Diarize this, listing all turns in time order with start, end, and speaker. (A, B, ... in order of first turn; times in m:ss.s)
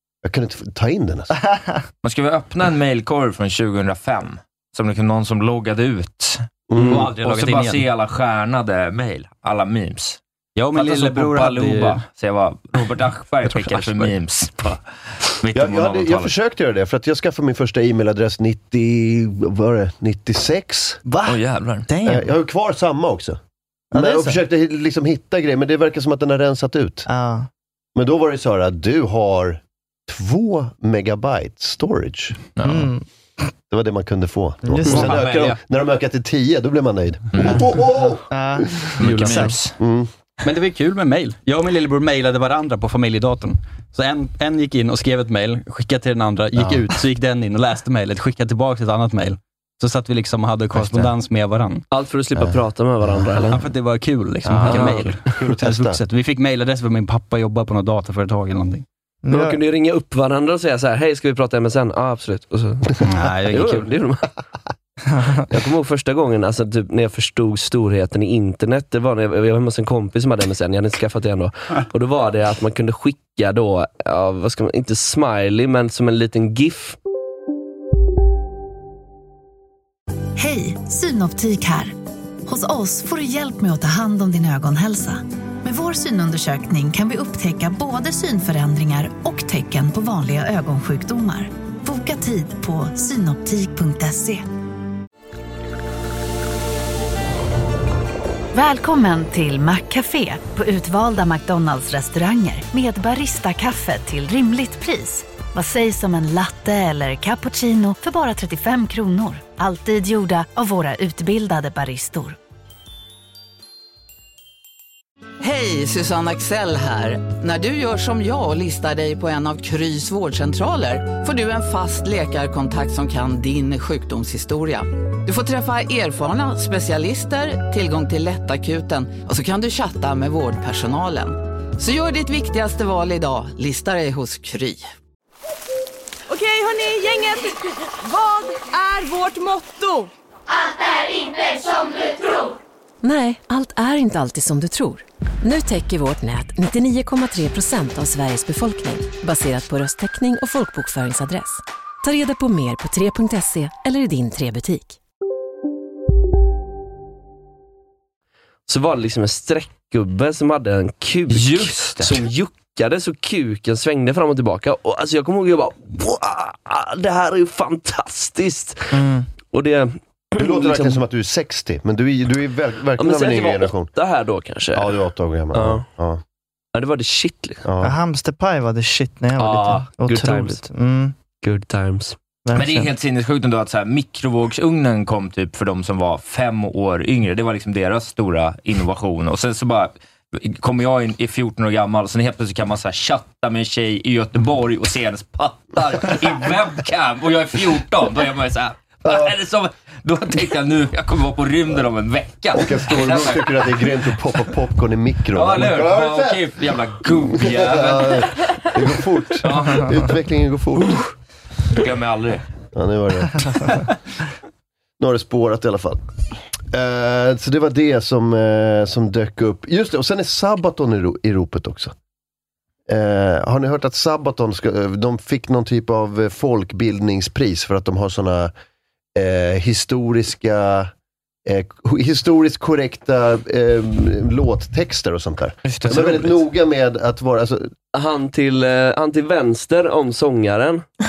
0:00.2-0:01.3 A
0:01.4-0:01.7 B
0:02.0-0:10.2 C
0:06.7-0:07.0 A
0:06.8-0:07.8 D
0:10.6-0:12.0 D
0:10.7-0:14.8 C
0:15.4-0:16.3 C
0:15.5-0:21.0 A
0:21.0-0:22.3 B
0:21.2-0:21.9 C
0:22.0-0:23.4 A
0:23.9-0:24.4 B
0:23.9-0:27.1 A
0:27.1-0:27.5 B
0:27.9-0:32.4 A
0:32.6-0:32.9 C
0:32.6-0:33.0 B
0:33.7-0:38.2 A
0:34.6-0:35.1 B
0:34.9-0:35.6 D
0:37.3-0:37.6 C
0:38.3-0:39.5 B
0:39.0-0:39.7 C
0:39.0-0:39.5 D
0:39.8-0:40.1 A
0:40.4-0:51.8 D
0:51.9-0:53.6 E
0:53.5-0:58.8 D
0:54.5-0:54.9 C
0:54.6-0:55.1 E
0:54.7-0:56.0 A
0:59.2-0:59.6 B
0:59.3-1:04.3 E
1:03.0-1:03.9 D
1:05.5-1:17.0 E
1:20.4-1:21.9 F
1:22.5-1:34.4 F
1:38.5-1:52.4 F
1:55.4-2:14.9 G
2:16.4-2:17.5 H
2:18.0-2:20.0 H
2:23.0-2:35.0 I
2:38.7-2:48.9 E
2:41.3-2:42.2 C
2:48.9-2:49.3 B
2:49.4-2:51.0 E
2:50.4-2:53.9 A
2:53.0-2:54.9 E
2:54.7-2:56.2 A
2:55.5-2:55.8 E
2:56.7-2:57.6 E
2:57.6-2:57.9 A
2:57.8-3:01.1 B
2:59.4-3:00.6 E
3:01.4-3:02.2 E
3:02.4-3:02.9 B
3:02.5-3:23.6 C
3:19.0-3:19.3 A
3:22.5-3:26.4 A
3:25.3-3:28.7 C
3:27.1-3:31.0 A
3:29.4-3:30.1 C
3:31.7-3:32.4 C
3:32.7-3:33.5 A
3:35.0-3:36.0 A
3:36.7-3:41.9 A
3:42.9-3:48.5 A
3:49.1-3:50.9 A
3:51.4-3:57.7 A
3:55.6-3:56.4 C
3:57.9-4:00.8 E